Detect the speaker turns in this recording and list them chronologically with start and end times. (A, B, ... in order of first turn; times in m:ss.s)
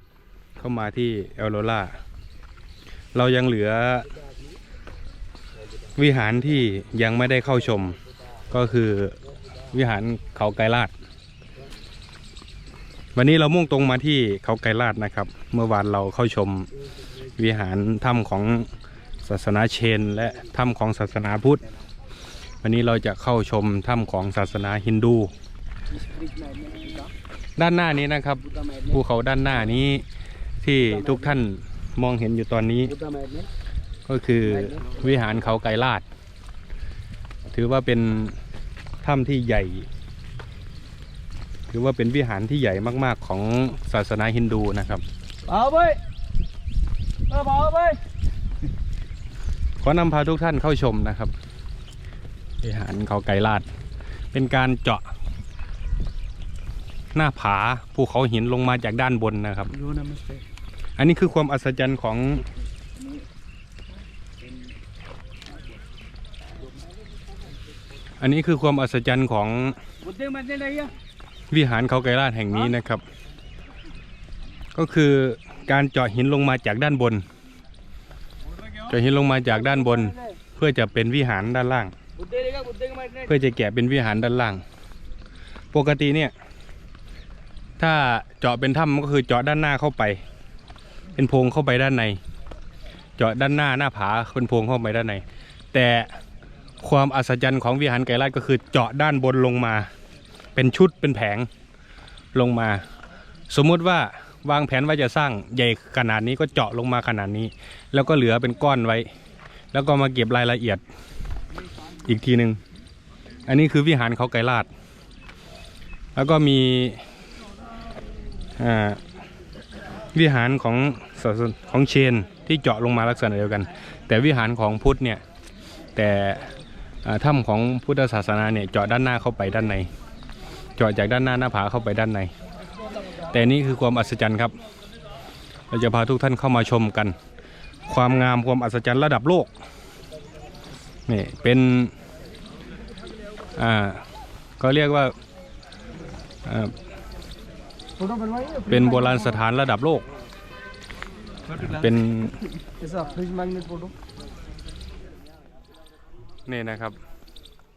0:00.6-0:02.0 A
0:03.1-0:04.1 A
0:06.0-0:08.0 A
0:08.5-0:09.2 A
0:09.7-0:10.9 A
0:13.2-0:16.7 A
0:17.4-0:18.7 A
0:19.2-0:21.6 A
0:22.6-0:25.3 A
0:26.0-0:27.1 B
0:27.6-0:30.0 A
0:30.6-0:33.0 A
0:33.0-0:33.5 B
0:34.1-0:36.0 A
0:37.5-0:38.4 A
0:39.0-0:39.9 A
0:41.7-0:45.0 A
0:45.5-0:46.0 B
0:47.3-0:48.0 B
0:49.8-0:51.3 A
0:52.6-0:53.7 A
0:54.3-0:55.0 A
0:57.1-0:59.8 A
0:59.8-1:00.4 B
1:01.0-1:02.5 A
1:08.2-1:09.8 A
1:10.0-1:10.9 B
1:11.5-1:13.0 A
1:14.8-1:17.2 A
1:18.8-1:22.0 A
1:22.2-1:23.2 B
1:23.2-1:24.6 A
1:25.7-1:26.3 A
1:27.8-1:30.2 A
1:31.2-1:32.2 A
1:33.2-1:36.2 A
1:36.8-1:39.9 A
1:40.6-1:41.5 A
1:42.3-1:42.9 A
1:43.5-1:49.1 A
1:49.7-1:50.8 A
1:52.0-1:52.6 A
1:53.5-1:54.7 A
1:56.2-1:57.0 A
1:58.6-1:59.0 A
2:00.1-2:05.2 A
2:06.0-2:09.9 A
2:10.8-2:12.3 A
2:13.3-2:14.5 A
2:15.7-2:17.2 A
2:17.9-2:19.5 A
2:21.1-2:22.0 A
2:23.6-2:24.0 A
2:24.6-2:25.2 A
2:26.4-2:26.8 A
2:28.0-2:28.8 B
2:28.6-2:30.1 A
2:31.5-2:32.4 A
2:32.8-2:33.9 B
2:36.5-2:37.0 A